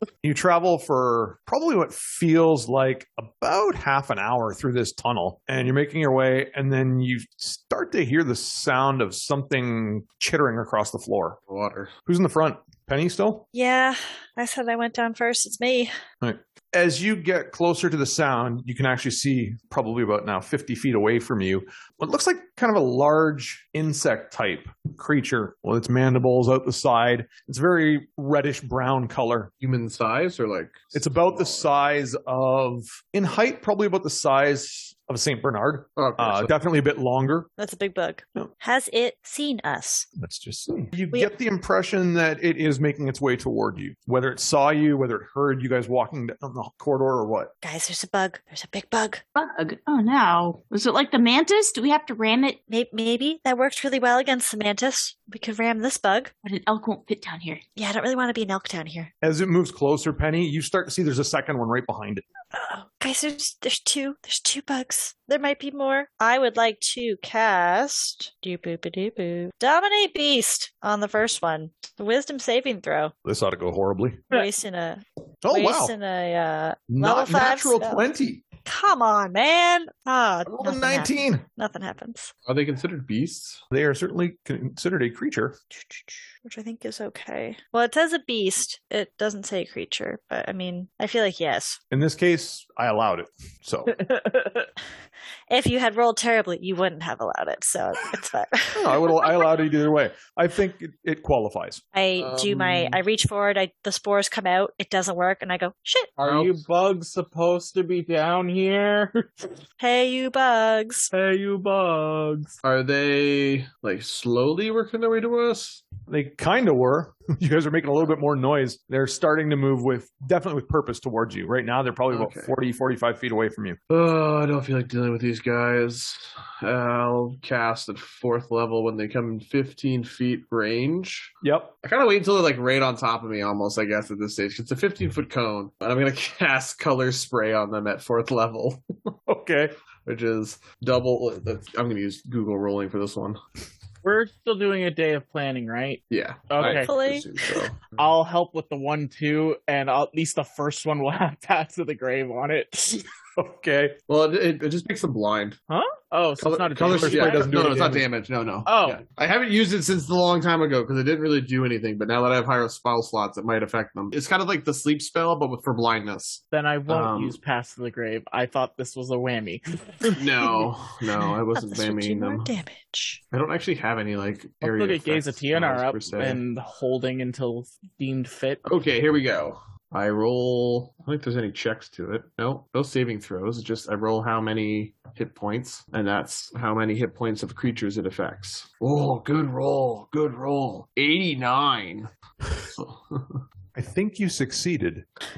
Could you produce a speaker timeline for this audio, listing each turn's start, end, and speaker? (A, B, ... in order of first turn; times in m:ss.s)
0:00.2-0:11.4 A
0:11.5-0:11.9 B
0:12.0-0:13.4 A
0:13.5-0:15.9 C
0:16.2-0:29.5 A
0:29.6-0:31.7 B
0:30.9-0:37.5 A
0:36.0-0:36.5 B
0:37.6-0:40.1 C
0:40.2-0:47.5 A
0:47.6-0:49.2 C
0:49.3-0:52.6 D
0:52.7-0:56.3 C
0:56.4-0:57.6 D
0:57.8-0:59.1 C
0:59.2-1:02.2 A
1:02.5-1:13.1 C
1:13.2-1:14.2 A
1:14.3-1:18.0 C
1:15.4-1:15.9 A
1:16.9-1:18.4 A
1:18.6-1:22.3 C
1:20.4-1:21.4 A
1:22.4-1:23.6 B
1:23.7-1:25.6 A
1:25.9-1:31.8 C
1:31.9-1:34.0 A
1:33.9-1:34.7 E
1:35.5-1:39.3 C
1:38.7-1:41.8 A
1:41.9-1:46.1 C
1:42.2-1:43.0 B
1:46.2-1:49.5 E
1:46.2-1:46.6 B
1:49.8-1:51.1 C
1:51.1-1:52.6 E
1:52.6-1:55.8 B
1:56.1-2:03.8 A
2:02.1-2:02.5 B
2:03.9-2:19.1 B
2:11.4-2:11.7 A
2:19.3-2:19.7 A
2:20.0-2:23.4 B
2:24.0-2:27.0 E
2:26.1-2:28.0 B
2:26.6-2:27.6 C
2:27.9-2:33.0 E
2:33.4-2:34.0 A
2:34.1-2:35.6 B
2:35.7-2:37.5 E
2:36.4-2:47.4 B
2:36.9-2:38.1 A
2:38.6-2:39.0 E
2:46.5-2:50.2 E
2:50.2-2:52.5 B
2:51.6-2:53.2 C
2:53.3-2:56.4 B
2:54.6-2:58.6 E
2:58.6-3:13.4 B
3:13.7-3:15.0 A